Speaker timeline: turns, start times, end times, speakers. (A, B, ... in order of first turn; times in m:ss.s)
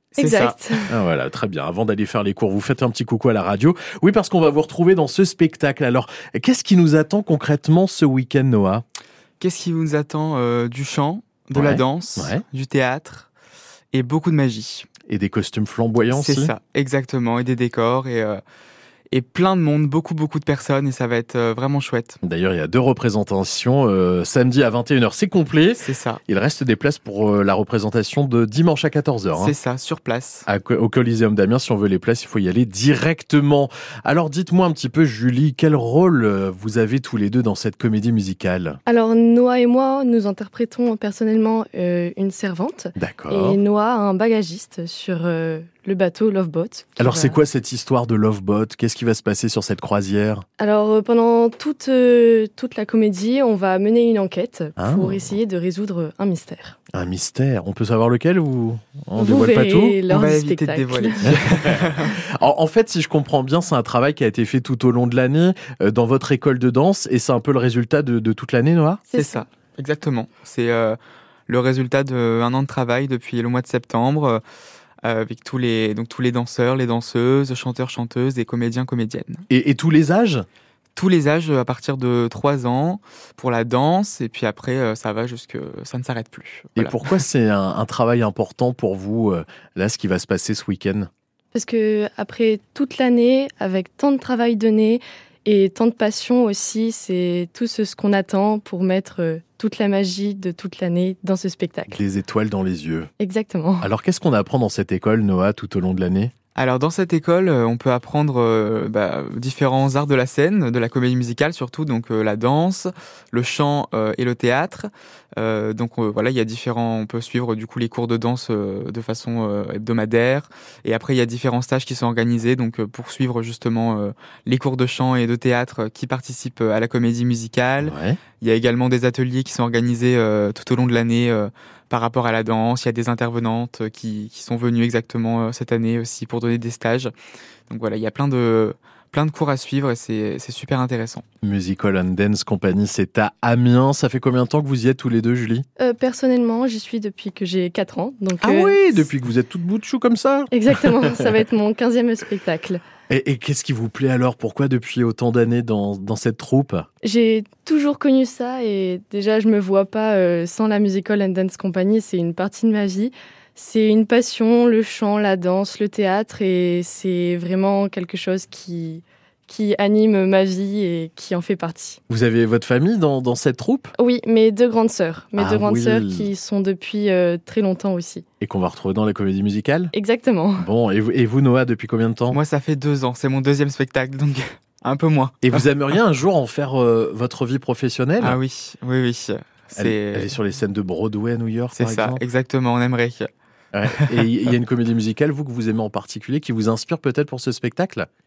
0:00.2-0:00.9 A
0:00.2-0:00.8 B
0:00.9-0:08.8 C
0:09.4-0:13.3 B
0:11.5-0:12.4 C
0:13.9-0:14.9 B
0:15.1-0:16.5 C
0:16.1-0:18.4 B
0:19.1-0:22.2 B
0:22.2-0:29.6 C
0:25.8-0:26.2 B
0:29.4-0:30.5 B
0:30.5-0:38.8 C
0:38.9-0:47.4 A
0:43.0-0:43.6 C
0:47.0-0:50.4 C
0:50.6-0:56.8 A
0:54.8-0:55.3 C
0:56.9-1:00.0 C
0:59.2-1:01.4 A
1:00.1-1:02.2 B
1:01.2-1:09.0 C
1:09.1-1:09.4 A
1:09.1-1:14.4 B
1:15.0-1:19.4 B
1:19.5-1:20.5 C
1:21.0-1:27.1 B
1:26.8-1:31.1 C
1:31.5-1:42.0 A
1:41.9-1:43.1 C
1:43.2-1:43.9 A
1:43.8-1:46.3 C
1:46.6-2:17.1 B
2:07.8-2:08.2 C
2:17.7-2:21.2 B
2:21.4-2:25.7 C
2:25.8-2:28.8 A
2:28.4-2:31.1 C
2:30.5-2:32.8 A
2:33.1-2:36.9 C
2:37.0-2:52.0 A
2:52.1-2:53.9 C
2:54.0-2:58.2 A
2:55.4-2:56.3 C
2:58.4-2:59.9 C
2:59.9-3:00.7 A
3:00.6-3:02.4 C
3:02.3-3:05.6 B
3:05.4-3:08.4 C
3:08.2-3:10.4 B
3:09.8-3:12.2 C
3:11.7-3:13.3 B
3:13.7-3:18.1 C
3:13.9-3:14.3 B